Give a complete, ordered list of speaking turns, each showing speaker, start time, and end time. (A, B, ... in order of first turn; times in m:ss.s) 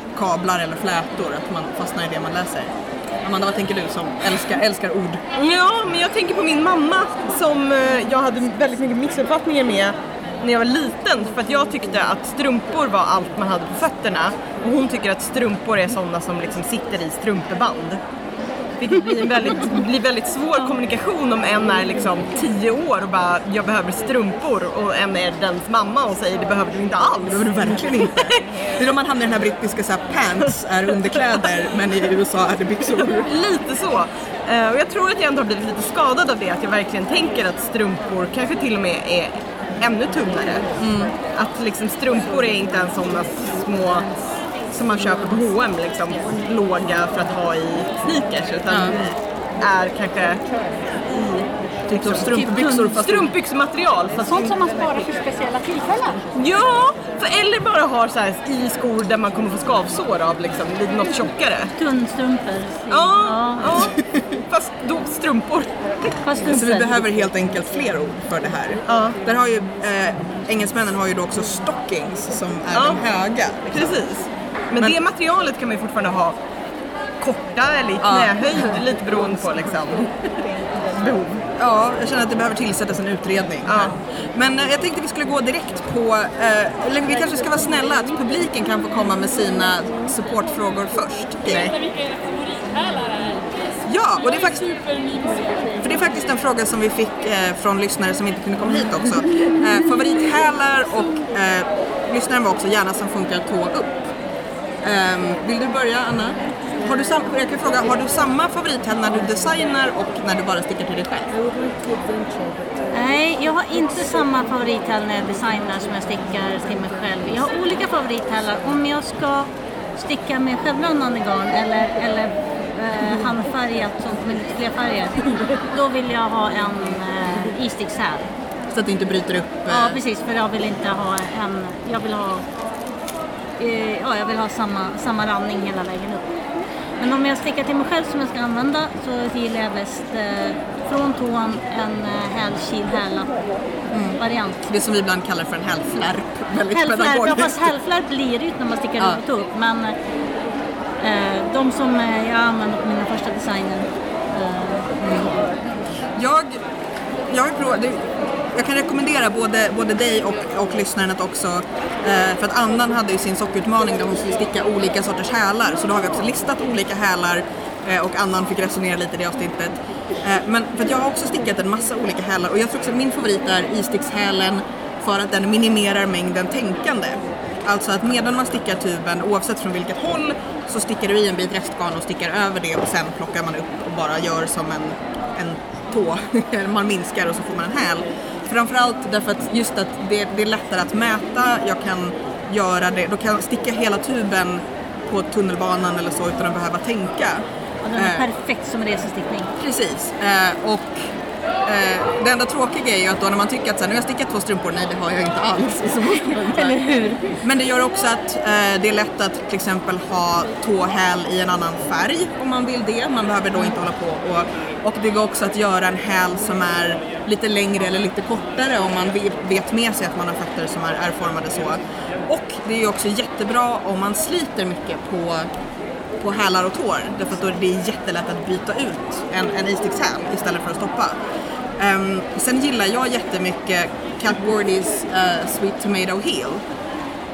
0:00.2-0:05.2 A
0:05.4-0:18.0 B
0:18.8-0:28.4 B
0:27.2-0:33.3 A
0:33.2-0:40.7 B
0:40.8-0:41.1 A
0:41.3-0:44.1 B
0:44.7-0:50.4 B
0:48.7-0:49.0 A
0:51.1-0:51.5 B
0:51.9-0:53.3 A
0:52.0-0:54.5 B
0:54.2-0:56.3 C
0:56.4-1:01.7 B
1:01.8-1:03.9 D
1:02.9-1:06.2 B
1:04.0-1:04.4 A
1:06.2-1:07.0 D
1:06.4-1:14.0 A
1:08.9-1:09.2 B
1:12.7-1:13.0 B
1:13.7-1:16.4 B
1:17.2-1:20.1 B
1:18.0-1:18.5 A
1:20.9-1:21.5 B
1:21.6-1:31.7 A
1:23.7-1:23.9 B
1:33.8-1:35.2 A
1:35.8-1:44.1 A
1:44.8-1:51.4 A
1:52.9-2:08.3 D
2:08.7-2:10.0 A
2:09.7-2:12.5 D
2:13.6-2:16.4 D
2:17.0-2:23.4 D
2:23.9-2:27.7 A
2:24.2-2:24.6 D
2:26.7-2:30.0 D
2:31.0-2:35.4 D
2:35.0-2:35.3 A
2:36.1-2:36.6 A
2:37.3-3:17.4 A
3:17.8-3:19.5 D
3:18.0-3:18.3 A
3:19.6-3:21.1 A
3:21.6-3:26.8 A
3:26.3-3:27.4 D
3:27.4-3:45.5 A
3:46.2-3:51.1 A
3:51.8-3:56.6 A